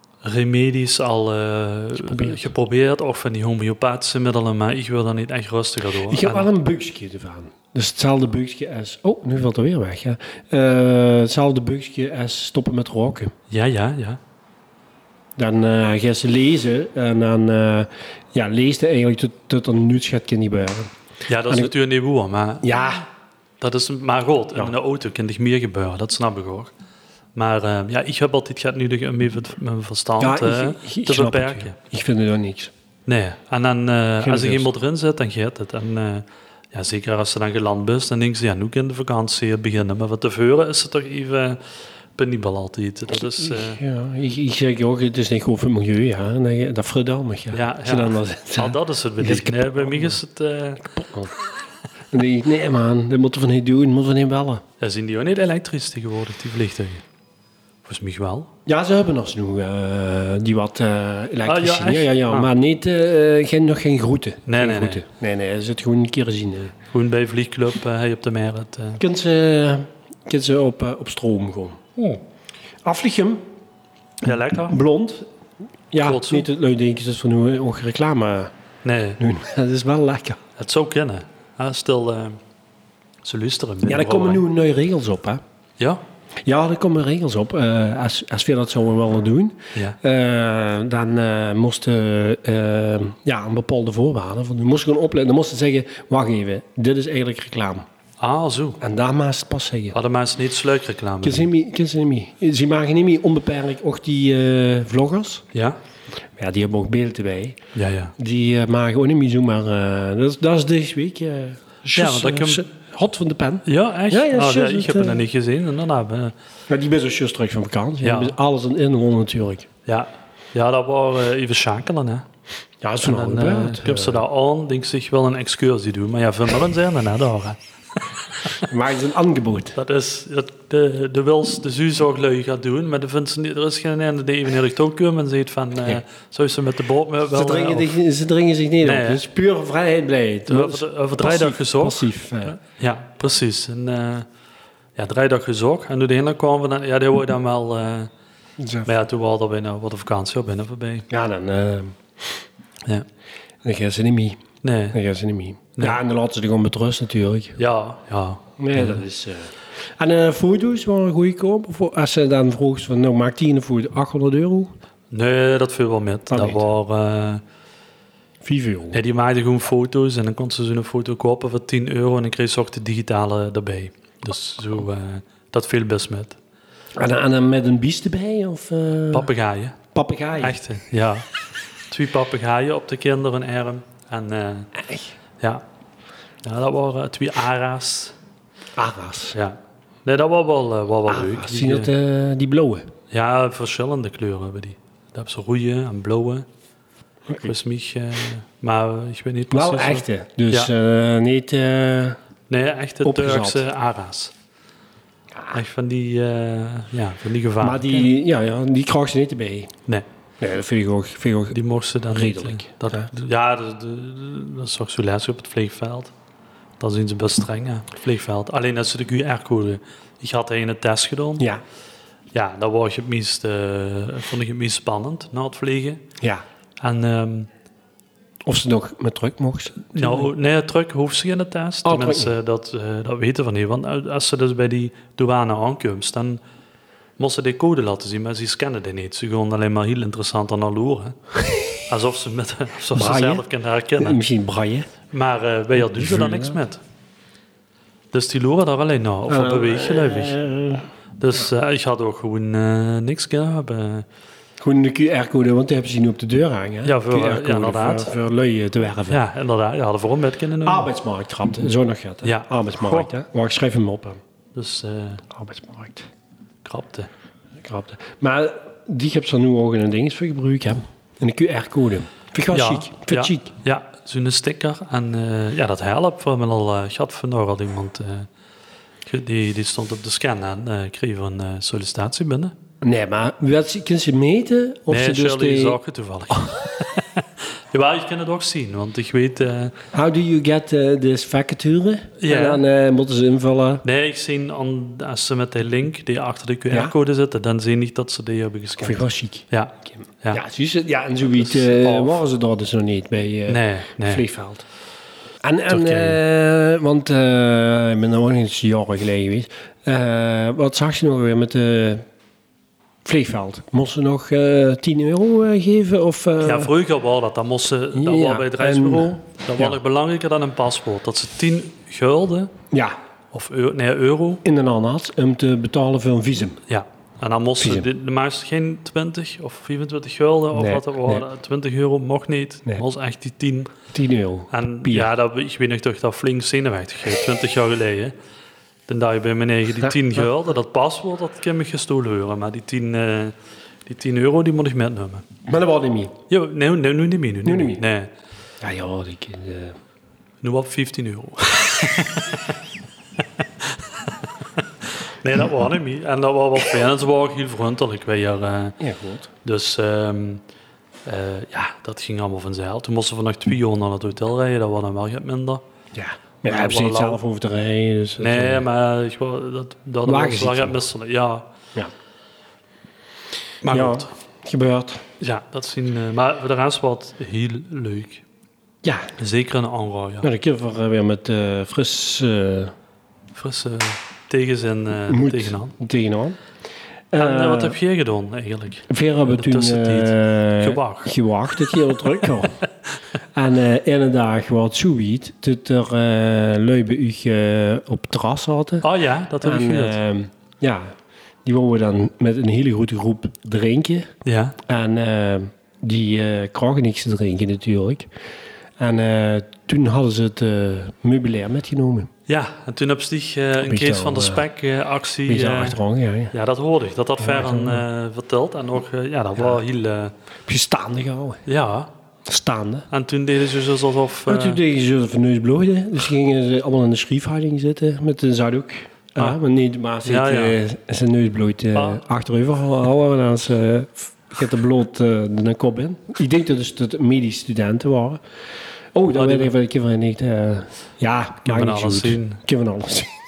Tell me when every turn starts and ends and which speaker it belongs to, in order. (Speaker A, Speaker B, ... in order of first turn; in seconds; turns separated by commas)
Speaker A: 0.2-6.5, Speaker B: 2.0-2.5, Speaker B: 6.0-13.3, Speaker A: 13.5-14.2, Speaker B: 15.4-20.9, Speaker A: 21.3-22.7, Speaker B: 22.6-23.1, Speaker A: 23.6-26.7, Speaker A: 27.4-31.8, Speaker B: 30.2-32.7, Speaker A: 33.1-41.6, Speaker B: 34.2-34.7, Speaker A: 42.1-43.8, Speaker B: 43.1-50.2, Speaker A: 47.5-50.9, Speaker B: 50.8-51.3, Speaker B: 52.1-54.6, Speaker A: 54.8-57.0, Speaker A: 57.9-58.5, Speaker B: 58.7-66.7, Speaker A: 61.5-62.5, Speaker A: 64.5-65.0, Speaker A: 66.9-69.0, Speaker B: 69.0-72.2, Speaker B: 72.8-73.4, Speaker A: 74.2-74.8, Speaker B: 74.7-75.3, Speaker B: 75.9-78.5, Speaker A: 76.0-76.5, Speaker A: 78.8-79.2, Speaker B: 79.2-80.4, Speaker A: 80.6-82.4, Speaker A: 83.2-84.5, Speaker B: 83.8-85.4, Speaker B: 86.5-97.8, Speaker A: 98.2-98.8, Speaker B: 98.8-100.0, Speaker A: 99.9-101.5, Speaker B: 101.2-105.5, Speaker A: 105.5-105.8, Speaker B: 106.4-107.6, Speaker A: 107.7-108.2, Speaker B: 108.2-115.3, Speaker A: 111.9-112.7, Speaker A: 113.7-116.3, Speaker B: 116.7-119.7, Speaker A: 118.0-118.3, Speaker A: 119.9-122.3, Speaker B: 122.8-124.2, Speaker A: 123.0-128.7, Speaker B: 128.6-129.8, Speaker A: 129.8-137.9, Speaker B: 137.3-142.6, Speaker A: 138.8-139.2, Speaker A: 140.5-144.3, Speaker A: 145.0-148.1, Speaker B: 148.6-148.9, Speaker A: 148.9-151.1, Speaker B: 151.1-152.4, Speaker B: 153.6-154.4, Speaker A: 154.6-155.0, Speaker B: 154.9-157.6, Speaker A: 157.6-159.0, Speaker B: 158.6-164.7, Speaker A: 165.1-167.4, Speaker B: 166.3-166.6, Speaker B: 168.4-169.0, Speaker A: 168.9-176.4, Speaker B: 177.0-179.3, Speaker A: 179.1-179.8, Speaker B: 179.9-180.6, Speaker A: 180.4-181.3, Speaker A: 181.9-184.7, Speaker B: 184.8-185.1, Speaker A: 186.4-188.2, Speaker B: 188.8-189.4, Speaker A: 189.3-191.9, Speaker B: 191.1-192.9, Speaker A: 193.1-196.5, Speaker A: 197.4-200.7, Speaker B: 199.5-202.2, Speaker A: 202.5-204.3, Speaker B: 203.0-203.6, Speaker A: 205.5-208.1, Speaker B: 207.6-209.7, Speaker B: 210.4-211.6, Speaker A: 211.5-216.1, Speaker B: 212.1-213.1, Speaker A: 216.8-221.5, Speaker A: 222.3-226.0, Speaker A: 226.8-227.5, Speaker B: 228.5-230.3, Speaker A: 229.9-236.4, Speaker B: 231.8-232.3, Speaker A: 237.2-241.2, Speaker A: 241.9-244.2, Speaker B: 242.9-243.4, Speaker B: 244.0-244.9, Speaker A: 245.1-246.8, Speaker B: 245.8-246.6, Speaker A: 248.1-250.4, Speaker B: 249.3-250.9, Speaker A: 251.2-254.1, Speaker B: 254.6-259.2, Speaker A: 256.8-258.1, Speaker A: 259.1-260.9, Speaker B: 260.6-264.2, Speaker A: 262.2-263.1, Speaker A: 264.6-265.2, Speaker B: 265.3-266.1, Speaker A: 266.6-267.1, Speaker B: 267.6-273.5, Speaker A: 272.5-278.3, Speaker A: 279.1-282.6, Speaker B: 282.8-285.8, Speaker A: 284.9-289.8, Speaker B: 289.9-293.8, Speaker A: 292.2-292.6, Speaker A: 293.8-300.4, Speaker B: 298.8-304.6, Speaker A: 301.4-302.2, Speaker A: 303.5-304.2, Speaker B: 305.4-312.0, Speaker A: 305.7-306.2, Speaker B: 313.1-316.7, Speaker A: 316.4-322.5, Speaker B: 317.9-319.8, Speaker B: 322.7-323.0, Speaker A: 323.3-324.4, Speaker B: 324.4-326.6, Speaker A: 326.7-333.7, Speaker B: 327.6-327.9, Speaker B: 330.5-331.2, Speaker B: 333.9-335.1, Speaker A: 334.5-338.1, Speaker A: 338.9-345.3, Speaker B: 345.4-346.1, Speaker A: 346.3-348.1, Speaker B: 347.4-347.8, Speaker B: 348.6-349.8, Speaker A: 350.4-352.6, Speaker A: 353.2-358.8, Speaker B: 358.8-359.3, Speaker A: 359.4-360.4, Speaker A: 361.1-365.6, Speaker B: 365.9-368.7, Speaker A: 366.5-367.2, Speaker A: 368.2-371.5, Speaker B: 370.1-370.8, Speaker A: 373.6-374.1, Speaker B: 373.7-375.0, Speaker A: 375.2-378.2, Speaker B: 378.8-379.1, Speaker A: 379.2-380.3, Speaker B: 380.2-382.7, Speaker A: 383.4-385.8, Speaker B: 385.1-386.4, Speaker B: 387.1-387.8, Speaker A: 387.2-392.3, Speaker B: 388.9-392.6, Speaker B: 393.4-398.9, Speaker A: 398.8-400.0, Speaker B: 399.4-400.9, Speaker B: 401.4-404.1, Speaker A: 404.2-404.6, Speaker B: 404.7-408.1, Speaker B: 408.8-412.1, Speaker A: 412.3-420.1, Speaker B: 413.6-414.4, Speaker B: 415.3-416.3, Speaker B: 417.2-417.8, Speaker B: 420.5-421.4, Speaker A: 421.5-421.9, Speaker B: 422.2-422.9, Speaker A: 422.9-424.6, Speaker B: 424.3-438.2, Speaker A: 430.1-430.6, Speaker A: 431.8-432.0, Speaker B: 438.9-443.1, Speaker A: 439.1-439.5, Speaker A: 441.4-442.4